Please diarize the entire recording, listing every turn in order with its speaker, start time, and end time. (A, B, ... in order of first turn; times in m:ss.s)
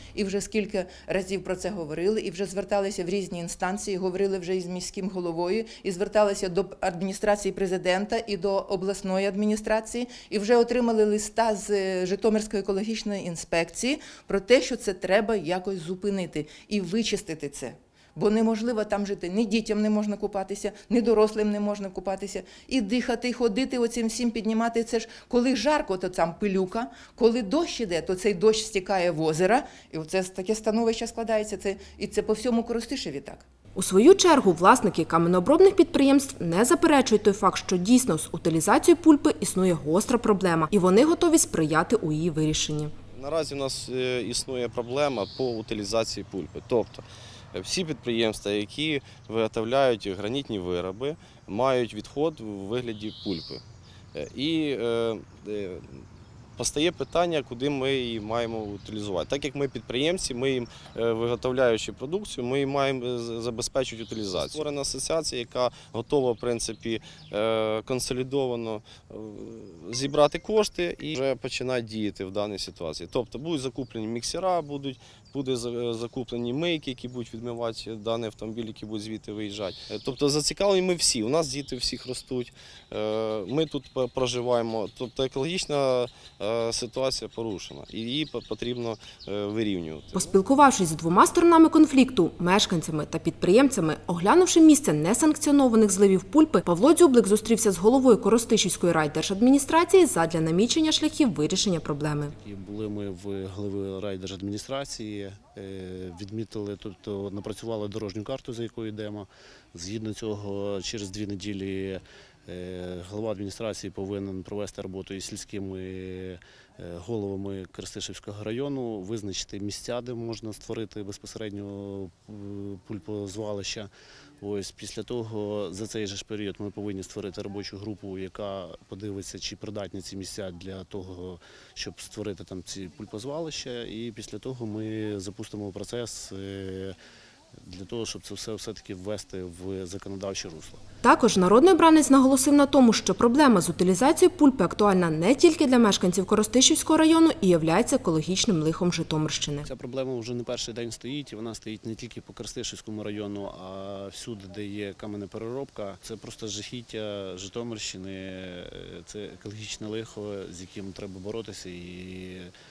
0:00.2-0:33.4 A
0:33.8-0:42.9 B
0:43.1-0:53.6 C
0:54.1-0:56.0 C
0:56.6-1:30.3 C
1:30.1-1:42.3 B
1:42.3-2:03.9 D
2:04.4-2:17.0 D
2:17.6-2:20.8 D
2:21.0-2:29.7 B
2:29.6-2:42.5 D